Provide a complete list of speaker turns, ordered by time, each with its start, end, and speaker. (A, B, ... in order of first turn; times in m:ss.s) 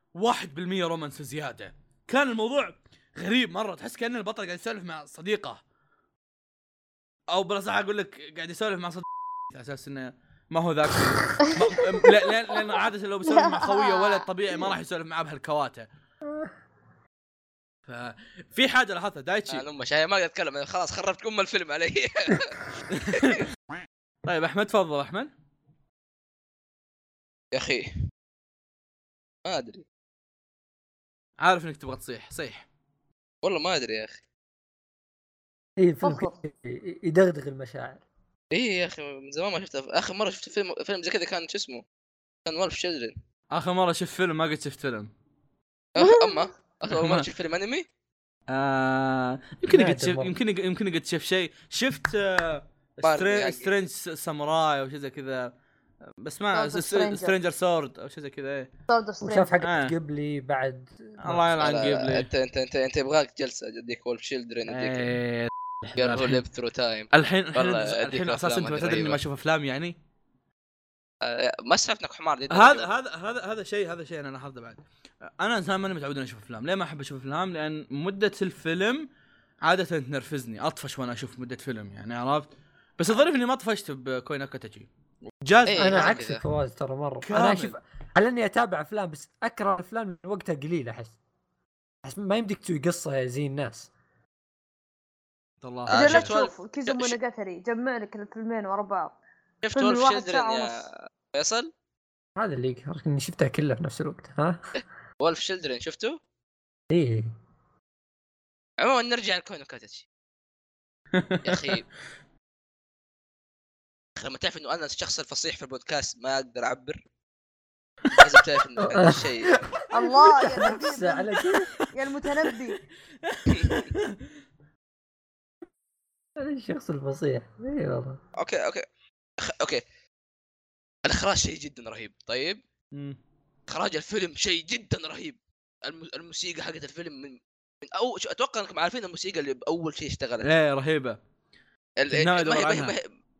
0:00.2-0:05.6 A
0:07.3-0:15.9 A
0:13.3-0:14.2 B
0:17.9-0:19.6 A
0:19.5-0:22.6 C
0:22.9-0:23.4 A
0:24.2-0:25.3 A
0:27.5-0:27.9 C
0:29.5-0:29.8 C
0:31.4-0:32.7 A
0:33.4-0:34.2 C
0:35.8-0:38.0 D
0:36.0-0:36.3 B
0:38.5-0:41.8 C
0:42.5-0:43.2 C
0:43.5-0:45.1 A
0:46.0-0:47.8 C
0:46.0-0:46.4 B
0:46.9-0:47.3 A
0:48.5-0:55.5 A
0:49.7-0:50.3 D
0:53.0-0:53.7 C
0:56.1-0:58.7 A
0:56.5-0:57.4 B
0:58.9-0:59.5 B
0:59.2-1:01.5 D
0:59.6-0:59.9 A
1:01.2-1:02.3 A
1:01.6-1:05.1 C
1:04.7-1:06.4 A
1:06.0-1:09.2 C
1:07.1-1:10.0 A
1:11.2-1:12.9 C
1:12.5-1:19.1 A
1:19.6-1:24.9 A
1:25.4-1:26.2 A
1:25.7-1:26.4 C
1:25.7-1:31.2 D
1:27.2-1:27.8 A
1:32.0-1:33.9 D
1:35.6-1:36.3 A
1:35.9-1:37.2 C
1:35.9-1:39.2 B
1:39.6-1:41.7 C
1:39.8-1:40.8 B
1:42.4-1:44.6 D
1:45.2-1:46.2 C
1:46.9-1:47.3 D
1:48.8-1:50.1 C
1:51.1-1:51.7 A
1:51.4-1:51.8 C
1:54.2-1:57.0 C
1:58.2-1:59.5 C
1:58.8-2:01.7 D
1:59.9-2:01.4 B
2:01.9-2:02.8 B
2:03.2-2:04.1 A
2:06.4-2:08.2 D
2:08.4-2:08.8 C
2:09.5-2:09.8 C
2:11.1-2:12.6 C
2:12.9-2:13.2 A
2:13.7-2:20.5 C
2:20.4-2:21.2 A
2:22.0-2:23.0 C
2:22.1-2:22.9 A